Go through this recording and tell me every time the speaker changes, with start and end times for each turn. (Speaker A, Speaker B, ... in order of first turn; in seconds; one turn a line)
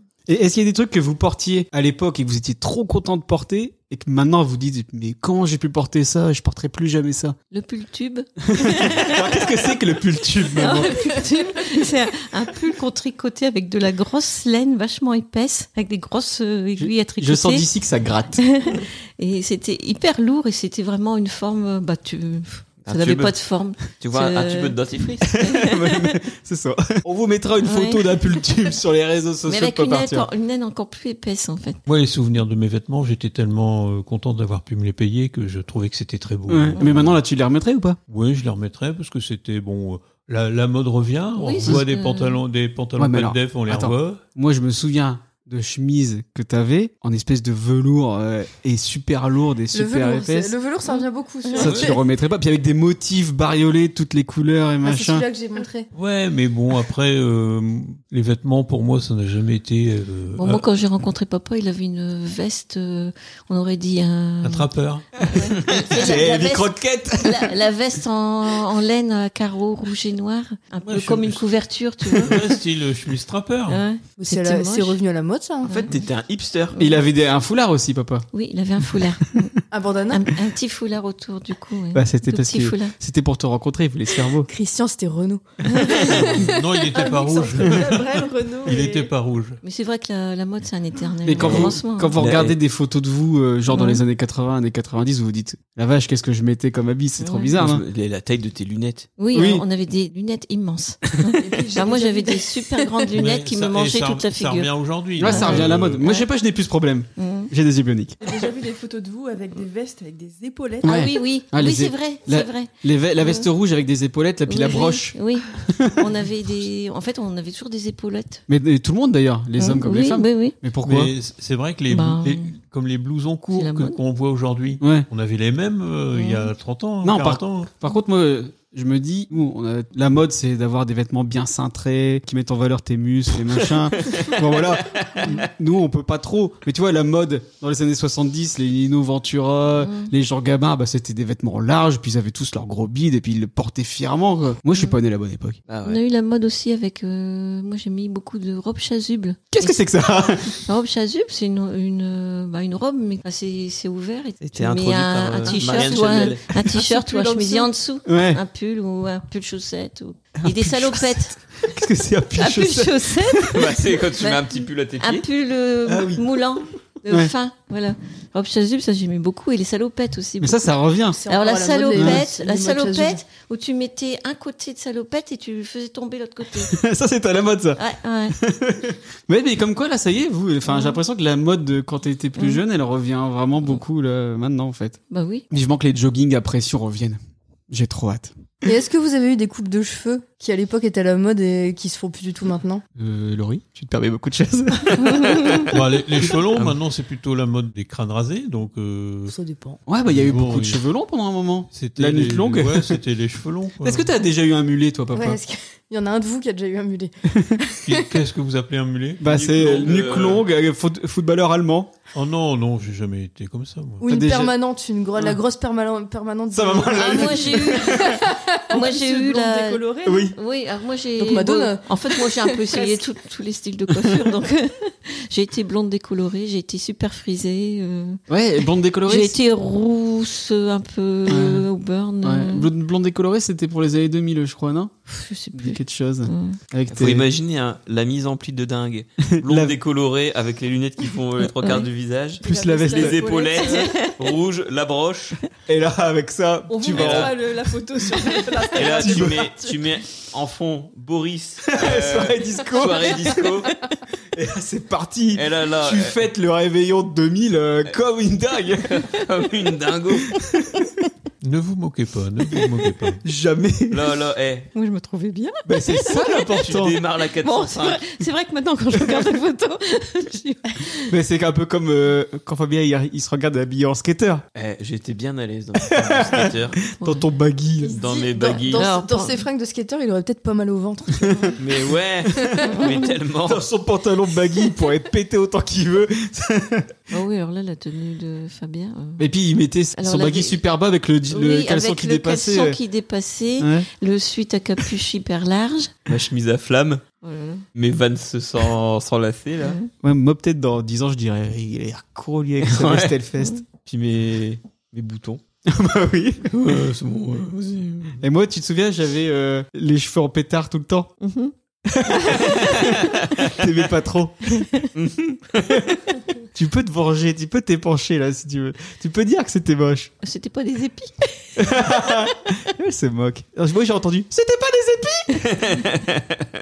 Speaker A: 0.3-7.4
Speaker B: 7.5-9.4
Speaker A: 8.5-11.1
Speaker B: 10.6-17.7
Speaker A: 16.8-18.4
Speaker B: 18.4-26.1
Speaker C: 22.9-23.3
Speaker C: 24.0-25.3
Speaker A: 25.3-30.3
Speaker B: 27.6-28.1
Speaker B: 29.5-31.8
Speaker D: 31.9-37.2
Speaker A: 36.5-38.0
Speaker D: 38.1-44.2
Speaker B: 41.4-42.4
Speaker A: 43.0-50.5
Speaker E: 49.7-52.0
Speaker B: 50.9-51.6
Speaker A: 51.5-55.2
Speaker D: 51.6-51.9
Speaker E: 54.8-55.9
Speaker D: 55.9-60.6
Speaker B: 60.4-72.4
Speaker D: 64.4-65.1
Speaker A: 65.7-67.5
Speaker D: 70.8-71.5
Speaker D: 72.2-73.8
Speaker B: 73.7-75.0
Speaker E: 74.2-75.8
Speaker B: 75.6-76.0
Speaker C: 75.7-76.7
Speaker A: 76.8-78.2
Speaker B: 78.3-79.5
Speaker E: 79.7-80.3
Speaker B: 80.1-82.9
Speaker A: 81.9-84.5
Speaker E: 84.5-87.4
Speaker D: 86.0-89.6
Speaker F: 86.9-89.1
Speaker B: 89.6-92.2
Speaker A: 91.2-97.8
Speaker C: 91.4-92.5
Speaker B: 93.7-94.0
Speaker B: 97.2-97.6
Speaker C: 97.6-99.1
Speaker B: 99.2-104.7
Speaker A: 99.3-99.6
Speaker F: 101.4-102.5
Speaker D: 103.1-106.0
Speaker A: 105.2-108.2
Speaker B: 105.2-106.3
Speaker B: 107.2-107.5
Speaker F: 108.2-111.1
Speaker B: 110.8-113.5
Speaker A: 110.8-116.1
Speaker B: 114.5-118.4
Speaker A: 118.5-121.1
Speaker B: 119.6-120.6
Speaker D: 120.8-127.7
Speaker B: 121.9-122.5
Speaker B: 123.5-124.0
Speaker A: 124.8-125.1
Speaker B: 126.1-126.5
Speaker A: 127.0-145.6
Speaker C: 134.0-134.3
Speaker B: 139.8-140.1
Speaker C: 145.7-146.0
Speaker B: 145.8-149.8
Speaker A: 149.5-150.6
Speaker B: 150.5-161.4
Speaker C: 154.4-156.5
Speaker A: 155.7-156.2
Speaker F: 156.9-157.6
Speaker A: 158.1-158.4
Speaker A: 160.4-163.7
Speaker B: 162.4-163.6
Speaker C: 163.5-165.2
Speaker B: 164.2-164.4
Speaker B: 165.0-170.6
Speaker A: 165.8-166.2
Speaker A: 170.4-171.2
Speaker E: 171.1-173.2
Speaker B: 171.3-176.7
Speaker A: 171.9-172.2
Speaker A: 176.7-177.8
Speaker B: 177.8-178.4
Speaker A: 178.3-185.0
Speaker B: 180.7-181.0
Speaker B: 185.1-185.4
Speaker A: 185.5-188.3
Speaker E: 188.6-192.8
Speaker A: 192.9-195.6
Speaker B: 195.0-195.6
Speaker D: 195.7-199.3
Speaker E: 199.3-199.8
Speaker A: 199.9-203.0
Speaker D: 200.0-200.8
Speaker D: 201.7-204.1
Speaker A: 203.8-205.4
Speaker E: 205.1-208.0
Speaker D: 207.8-209.3
Speaker A: 209.2-211.9
Speaker C: 209.2-210.5
Speaker D: 212.1-214.0
Speaker E: 214.0-218.5
Speaker A: 214.0-214.5
Speaker A: 216.5-218.2
Speaker B: 216.9-228.2
Speaker F: 218.7-220.3
Speaker A: 220.0-220.3
Speaker E: 221.2-221.9
Speaker A: 228.3-229.4
Speaker B: 229.0-232.7
Speaker A: 231.3-231.7
Speaker A: 232.2-234.9
Speaker B: 235.1-236.6
Speaker A: 235.5-237.3
Speaker C: 236.9-245.4
Speaker A: 239.3-239.8
Speaker B: 241.4-241.8
Speaker A: 242.4-243.4
Speaker F: 242.4-243.9
Speaker B: 243.6-244.1
Speaker A: 245.7-247.3
Speaker F: 246.7-249.8
Speaker C: 246.9-247.3
Speaker C: 248.7-253.7
Speaker A: 248.9-249.5
Speaker A: 251.7-253.5
Speaker A: 254.3-259.0
Speaker C: 255.3-256.2
Speaker C: 258.8-260.4
Speaker A: 260.3-260.9
Speaker D: 261.4-263.2
Speaker A: 263.2-264.1
Speaker C: 263.9-264.7
Speaker B: 264.7-266.5
Speaker A: 265.6-267.0
Speaker C: 266.6-268.0
Speaker B: 267.4-271.1
Speaker A: 268.9-269.2
Speaker A: 271.1-274.4
Speaker C: 274.5-276.8
Speaker A: 275.9-278.0
Speaker B: 277.0-277.3
Speaker E: 277.8-281.6
Speaker C: 277.9-278.9
Speaker B: 278.7-279.4
Speaker C: 281.6-283.6
Speaker B: 282.7-283.0
Speaker A: 283.4-286.9
Speaker B: 287.1-289.3
Speaker A: 289.2-292.8
Speaker B: 289.9-290.6
Speaker B: 291.3-295.9
Speaker A: 293.6-293.9
Speaker C: 296.1-297.0
Speaker B: 297.2-297.6
Speaker C: 297.7-299.8
Speaker B: 299.6-299.9
Speaker A: 300.0-303.6
Speaker C: 302.6-303.1
Speaker C: 303.8-305.4
Speaker A: 305.6-306.6
Speaker C: 306.5-308.2
Speaker A: 308.2-311.1
Speaker B: 311.2-311.5
Speaker A: 311.9-314.7
Speaker B: 312.1-312.9
Speaker C: 312.6-313.5
Speaker C: 314.9-315.8
Speaker A: 316.5-320.1
Speaker B: 320.2-321.5
Speaker A: 321.6-325.5
Speaker C: 325.5-326.2